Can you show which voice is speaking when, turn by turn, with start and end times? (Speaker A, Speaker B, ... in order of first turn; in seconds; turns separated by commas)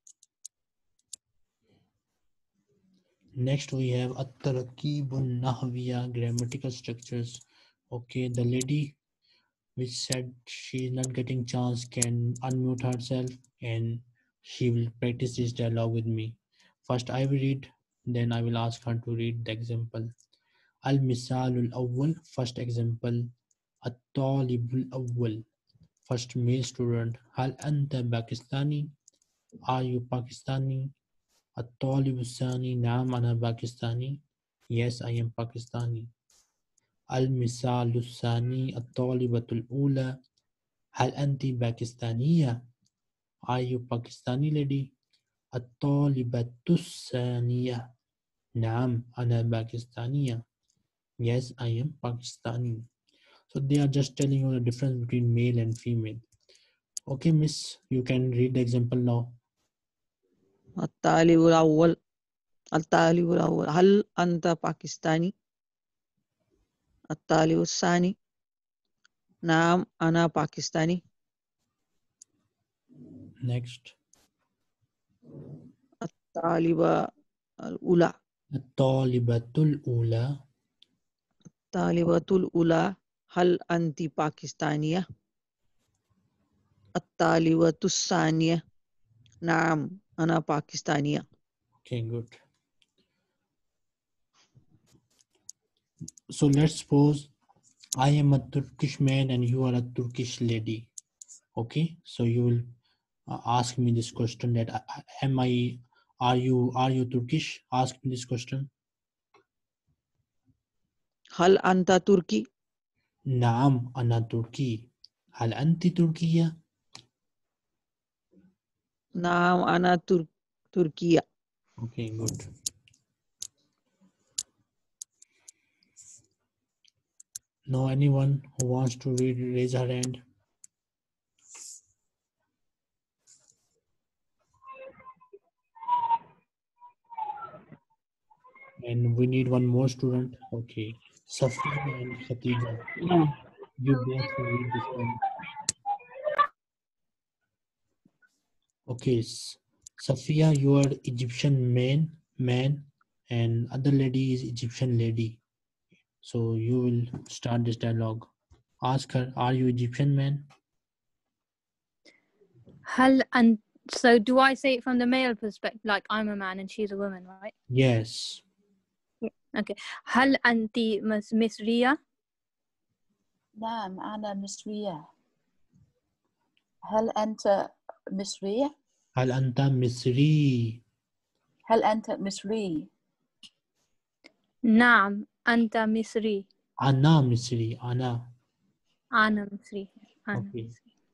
Speaker A: 3.4-9.0, Speaker A: 9.8-20.1, Speaker A: 20.8-23.3, Speaker A: 23.8-25.4, Speaker A: 26.1-28.9, Speaker A: 29.7-30.9, Speaker A: 31.6-36.1, Speaker A: 37.1-40.2, Speaker A: 41.0-42.6, Speaker A: 43.5-44.9, Speaker A: 45.5-47.9, Speaker A: 48.5-50.4, Speaker A: 51.2-52.9, Speaker A: 53.5-56.2, Speaker A: 57.1-59.4, Speaker B: 60.8-62.0, Speaker B: 62.8-65.3, Speaker B: 67.1-68.1, Speaker B: 69.4-71.0, Speaker A: 73.4-73.9, Speaker B: 76.0-76.9, Speaker B: 77.7-78.1, Speaker A: 78.5-80.3, Speaker B: 81.7-82.8, Speaker B: 83.3-85.0, Speaker B: 87.0-88.6, Speaker B: 89.4-91.2, Speaker A: 91.8-92.4, Speaker A: 96.3-97.3, Speaker A: 98.0-100.9, Speaker A: 101.5-102.7, Speaker A: 103.3-108.7, Speaker B: 111.4-112.4, Speaker A: 113.3-116.5, Speaker B: 119.2-121.2, Speaker A: 121.8-122.4, Speaker A: 127.7-130.2, Speaker A: 138.8-142.8, Speaker A: 143.8-145.2, Speaker A: 148.9-155.4, Speaker A: 156.2-158.3, Speaker A: 158.8-160.4, Speaker C: 162.8-167.5, Speaker A: 167.7-168.4, Speaker C: 169.2-172.0, Speaker D: 173.6-175.0, Speaker D: 176.9-178.7, Speaker A: 179.2-180.8, Speaker D: 181.7-182.9, Speaker C: 184.7-186.4, Speaker A: 186.8-188.3, Speaker C: 189.2-190.7, Speaker A: 190.3-190.7